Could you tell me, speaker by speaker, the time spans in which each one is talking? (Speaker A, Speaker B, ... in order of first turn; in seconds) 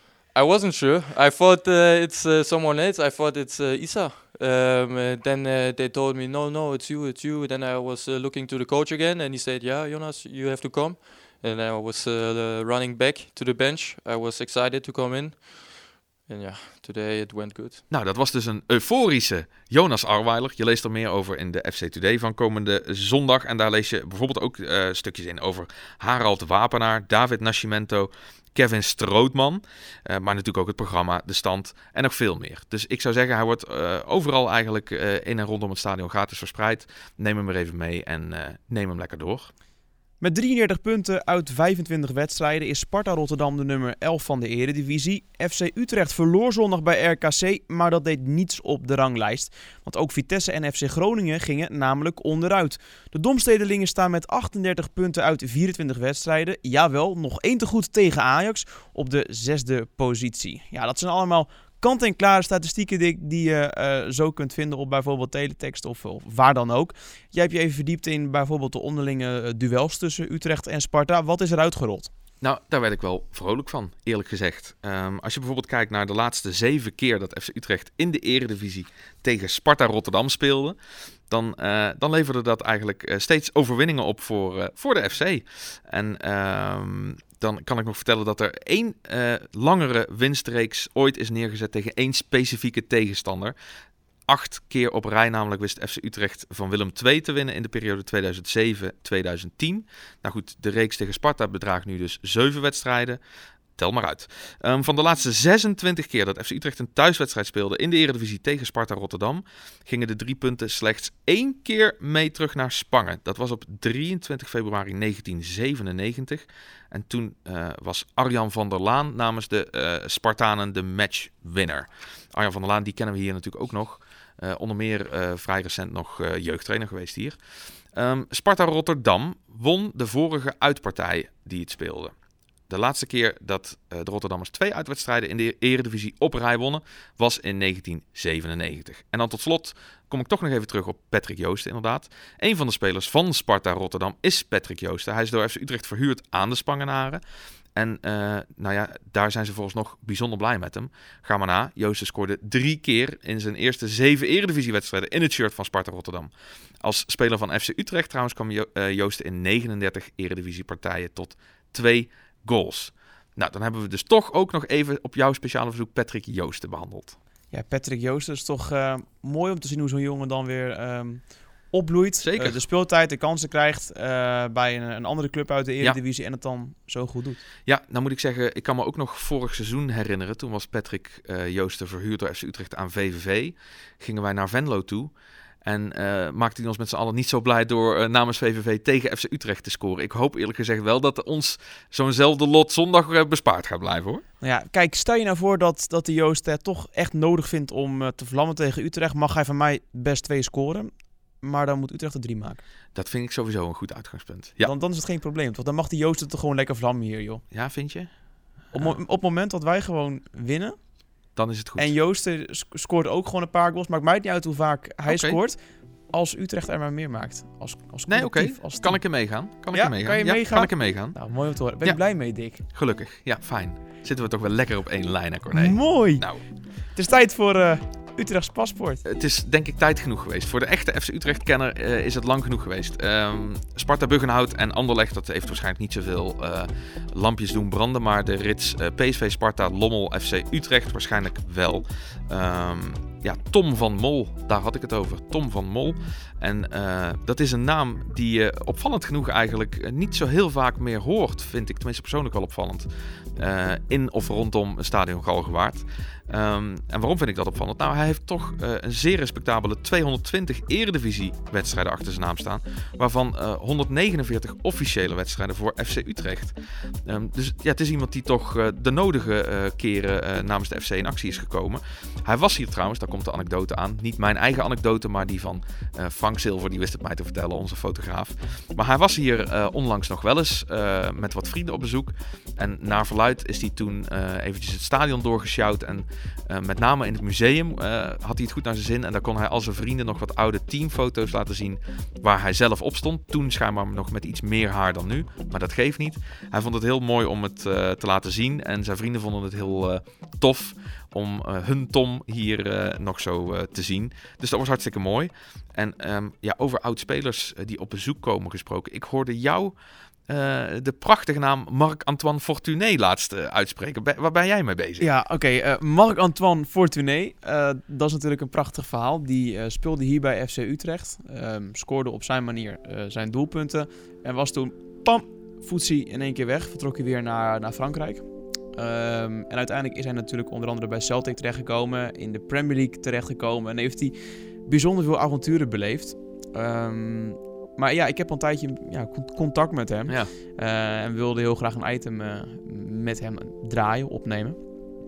Speaker A: 0.3-17.8
Speaker B: 17.9-39.5, 72.4-80.8, 81.3-93.5, 94.3-103.2, 103.8-127.4, 127.9-132.1, 132.7-147.2, 147.7-156.3, 156.8-167.2, 172.2-172.6, 177.7-185.1, 185.6-194.2, 202.9-204.7, 207.5-208.1, 211.3-211.9, 215.1-215.4, 218.1-221.2, 222.7-226.4, 229.0-266.5, 267.1-309.7, 310.3-315.1
Speaker C: 40.2-72.1, 167.5-177.4, 194.4-202.6, 204.6-207.4, 208.7-210.8, 211.8-215.6, 216.1-219.0, 219.7-222.6, 225.5-226.2, 226.9-229.0, 315.0-344.6